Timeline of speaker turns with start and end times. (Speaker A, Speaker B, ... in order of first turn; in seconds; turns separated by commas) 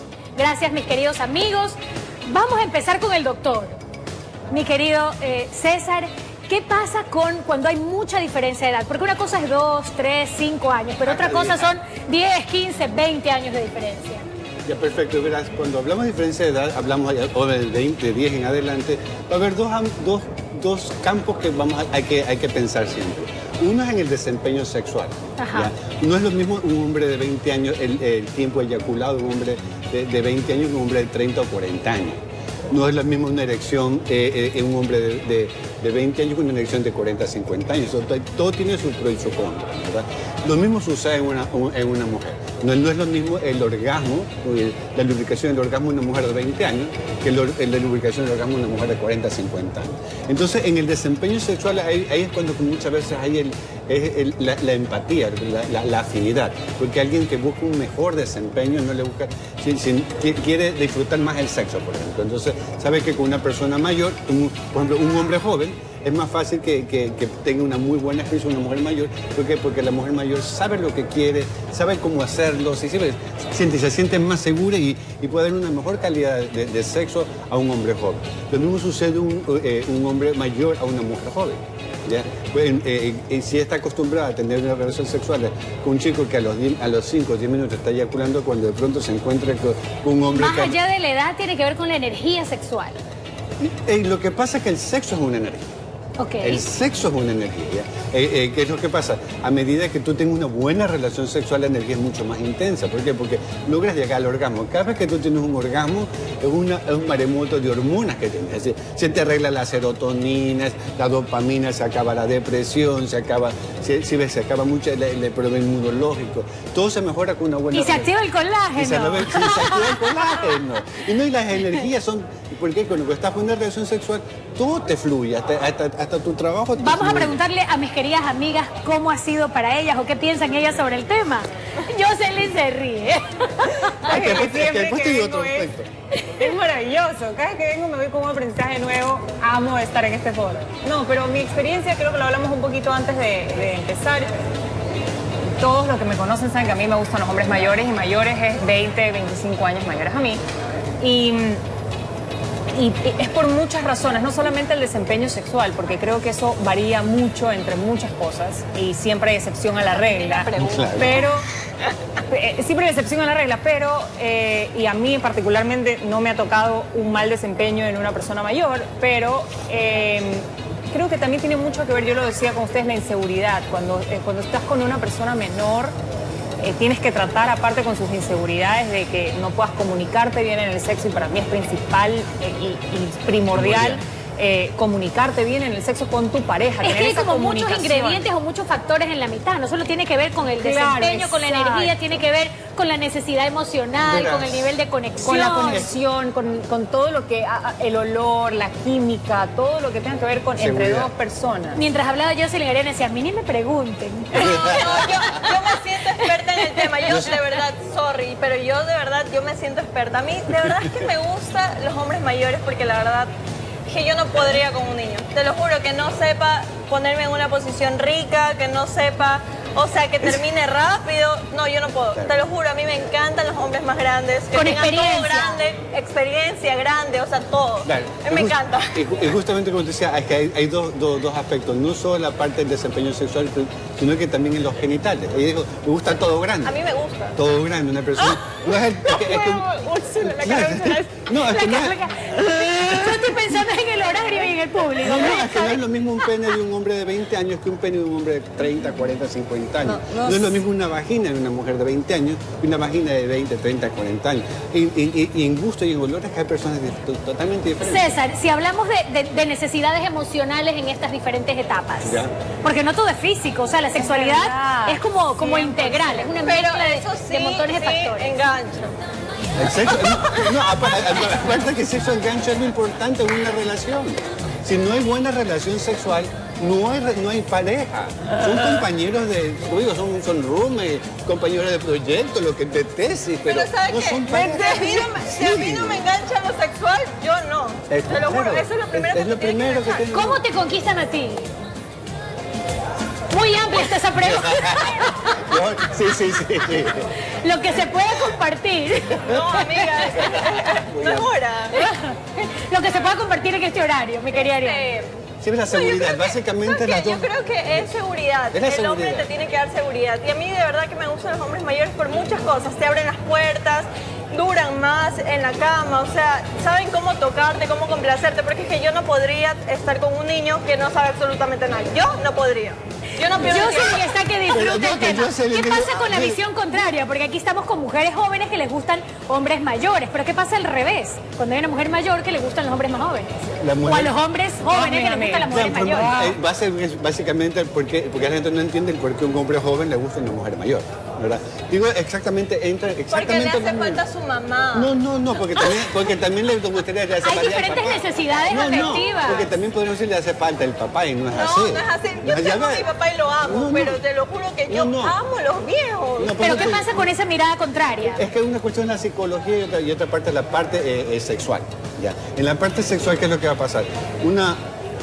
Speaker A: 0.4-3.8, Speaker A: 4.5-14.2, Speaker B: 11.0-11.7, Speaker B: 14.7-90.8, Speaker A: 25.4-25.7, Speaker A: 90.3-93.0, Speaker B: 93.6-95.7, Speaker A: 96.2-96.6, Speaker B: 96.4-118.1, Speaker A: 117.7-120.2, Speaker B: 118.8-127.4, Speaker A: 126.8-134.1, Speaker C: 134.0-135.7, Speaker B: 134.0-135.9, Speaker C: 136.3-144.3, Speaker C: 145.6-150.4, Speaker C: 151.0-151.6, Speaker C: 152.7-161.5, Speaker D: 160.1-161.3, Speaker B: 160.6-161.3, Speaker C: 162.3-175.9, Speaker C: 176.6-188.3, Speaker B: 183.5-184.0, Speaker A: 186.8-195.8, Speaker C: 190.6-192.0, Speaker B: 194.0-194.6, Speaker C: 195.2-201.8, Speaker B: 195.5-195.9, Speaker B: 200.6-201.1, Speaker A: 201.7-204.8, Speaker B: 204.3-205.4, Speaker D: 204.4-213.3, Speaker B: 207.1-207.3, Speaker D: 213.9-229.0, Speaker B: 222.2-222.4, Speaker A: 224.6-225.6, Speaker B: 227.8-236.8, Speaker D: 236.7-237.4, Speaker B: 237.4-239.7, Speaker D: 238.2-241.2, Speaker B: 240.2-243.6, Speaker A: 241.5-245.8, Speaker D: 244.1-244.5, Speaker B: 245.0-258.2, Speaker A: 257.8-268.3, Speaker B: 262.0-262.3, Speaker C: 263.9-266.3, Speaker D: 266.4-268.9, Speaker B: 269.6-286.0, Speaker D: 269.9-271.0, Speaker D: 283.5-290.1, Speaker B: 287.9-290.4, Speaker A: 290.1-291.5, Speaker A: 293.3-295.5, Speaker B: 294.2-297.1, Speaker A: 297.3-299.9, Speaker D: 299.3-301.9, Speaker B: 300.1-301.3, Speaker A: 301.8-304.8, Speaker D: 304.3-305.2, Speaker B: 305.4-307.9, Speaker D: 305.7-324.1, Speaker B: 308.5-309.3, Speaker A: 323.4-333.3, Speaker B: 324.5-326.4, Speaker B: 333.6-334.1, Speaker A: 333.8-336.2, Speaker C: 334.6-336.4, Speaker B: 335.5-344.0, Speaker D: 343.1-344.9, Speaker B: 344.7-352.9, Speaker A: 347.2-349.5, Speaker D: 351.3-356.7, Speaker B: 353.4-354.0, Speaker B: 354.7-355.2, Speaker B: 356.2-357.1, Speaker A: 356.4-358.2, Speaker B: 358.1-364.6